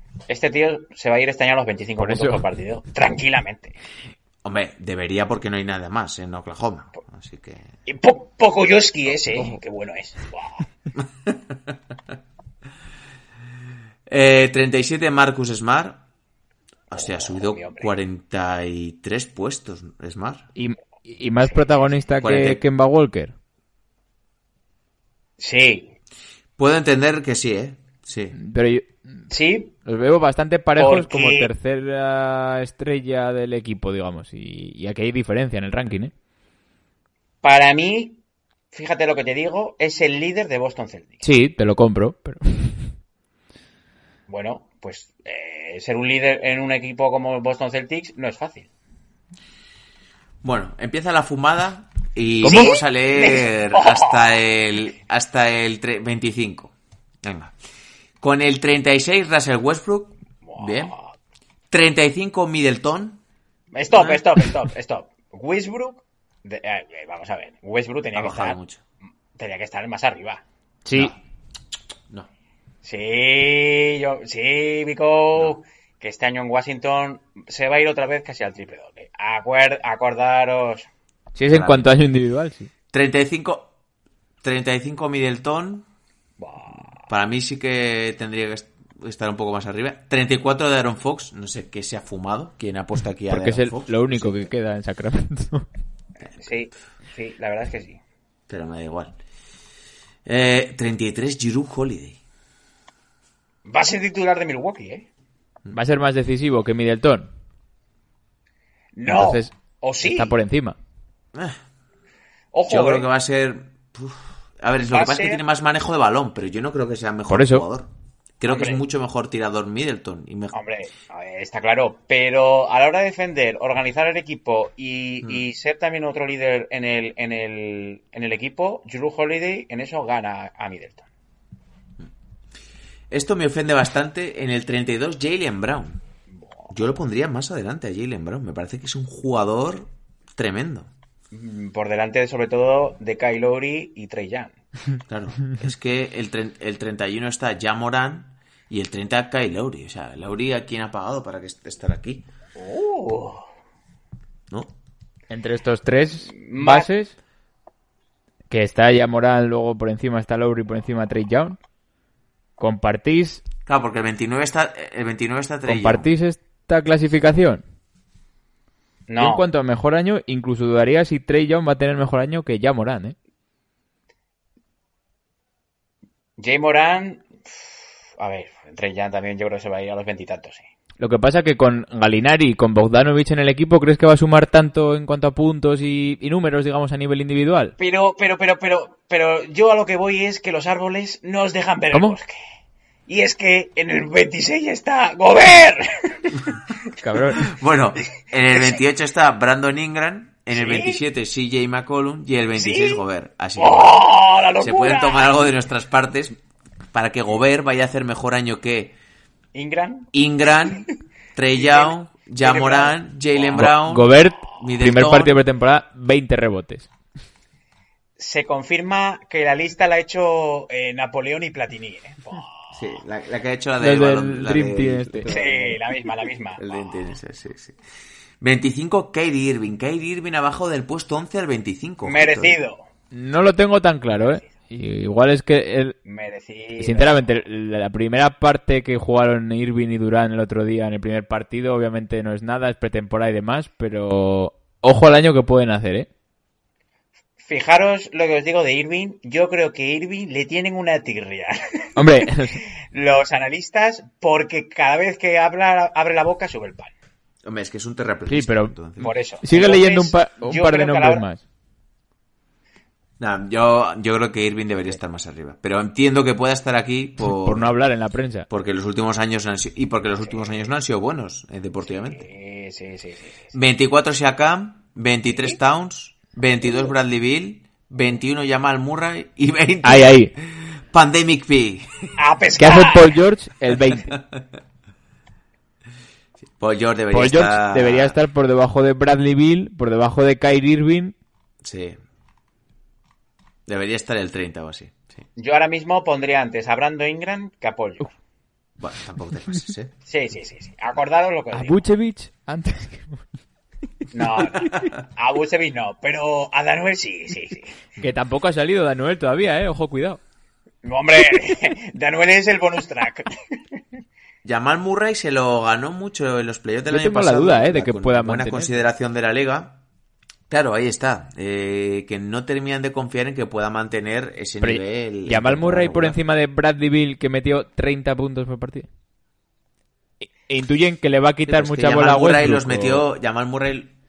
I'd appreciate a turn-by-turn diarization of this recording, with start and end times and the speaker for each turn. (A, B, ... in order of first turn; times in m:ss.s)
0:00.3-0:03.8 A
0:02.0-0:02.4 B
0:04.4-0:07.7 C
0:07.9-0:10.7 A
0:11.3-0:11.5 C
0:14.1-0:16.0 C
0:16.9-0:20.4 C
0:16.9-0:17.9 A
0:20.6-0:23.3 B
0:22.2-0:22.6 C
0:25.4-0:25.9 A
0:26.6-0:28.4 C
0:28.4-0:29.0 B
0:29.3-0:29.8 A
0:29.8-0:36.1 B
0:30.8-0:31.5 A
0:37.4-0:38.2 A
0:38.7-0:41.2 A
0:41.2-0:42.9 B
0:44.3-0:48.7 A
0:50.4-0:57.5 C
0:52.4-0:52.7 B
0:52.4-0:54.3 A
0:58.2-1:00.9 C
1:00.4-1:01.1 A
1:01.7-1:03.2 C
1:03.7-1:08.6 A
1:08.2-1:08.8 C
1:09.4-1:10.4 A
1:10.9-1:11.2 B
1:10.9-1:11.2 C
1:12.8-1:20.9 A
1:21.4-1:22.7 B
1:21.5-1:21.9 C
1:22.9-1:23.7 C
1:24.4-1:25.9 C
1:26.4-1:27.0 A
1:27.1-1:34.3 C
1:33.3-1:35.7 B
1:36.4-1:38.0 A
1:38.5-1:39.2 C
1:40.3-1:42.2 C
1:43.7-1:45.1 A
1:45.7-1:47.3 B
1:49.0-1:50.4 A
1:49.1-1:49.5 B
1:50.0-1:50.8 B
1:51.3-1:51.6 C
1:52.5-1:53.1 A
1:52.7-2:00.6 C
1:54.9-1:55.4 A
1:57.3-1:57.7 B
1:58.5-1:58.8 A
2:00.5-2:11.1 A
2:13.1-2:16.0 C
2:16.4-2:16.7 A
2:16.7-2:20.9 C
2:21.3-2:24.6 A
2:25.1-2:32.2 C
2:32.6-2:33.5 A
2:35.3-2:37.1 B
2:36.3-2:36.9 A
2:38.5-2:41.6 B
2:42.6-2:43.4 B
2:43.7-2:46.1 C
2:45.7-2:47.6 B
2:49.1-2:49.4 A
2:49.2-2:53.2 B
2:56.4-3:00.7 A
3:01.0-3:07.7 B
3:07.8-3:12.4 A
3:11.9-3:12.2 B
3:13.1-3:16.6 A
3:17.0-3:17.5 B
3:17.4-3:24.0 C
3:20.5-3:21.0 A
3:22.6-3:23.0 A
3:23.6-3:25.4 A
3:24.6-3:26.4 C
3:26.9-3:29.0 C
3:29.5-3:30.1 A
3:30.1-3:35.4 C
3:30.6-3:31.0 A
3:31.5-3:33.7 A
3:33.6-3:36.9 B
3:38.2-3:42.8 A
3:42.7-3:45.8 C
3:43.8-3:45.3 B
3:45.3-3:46.8 A
3:46.6-3:47.8 C
3:48.4-3:52.6 C
3:52.0-3:52.8 A
3:53.1-3:56.0 B
3:56.1-3:57.2 A
3:56.8-4:06.1 B
4:07.4-4:12.0 A
4:12.0-4:12.6 B
4:12.8-4:16.9 A
4:17.4-4:19.1 C
4:18.3-4:18.8 B
4:19.0-4:21.2 A
4:19.4-4:21.4 B
4:23.2-4:27.7 C
4:27.2-4:28.5 B
4:28.5-4:32.3 C
4:30.2-4:30.7 A
4:31.9-4:33.6 A
4:33.5-4:42.1 C
4:35.3-4:35.6 A
4:39.8-4:40.3 B
4:42.2-4:43.2 A
4:42.6-4:44.2 B
4:44.1-4:44.4 C
4:46.6-4:48.2 C
4:47.1-4:51.2 B
4:51.6-4:52.0 C
4:53.7-4:55.2 C
4:55.4-4:58.1 A
4:58.8-4:59.9 C
5:00.1-5:01.8 A
5:01.5-5:03.2 B
5:04.1-5:07.8 A
5:08.0-5:10.2 B
5:10.8-5:13.8 A
5:14.4-5:19.8 C
5:16.9-5:18.7 B
5:20.5-5:26.2 C
5:24.6-5:28.9 B
5:30.2-5:33.1 B
5:31.5-5:33.9 C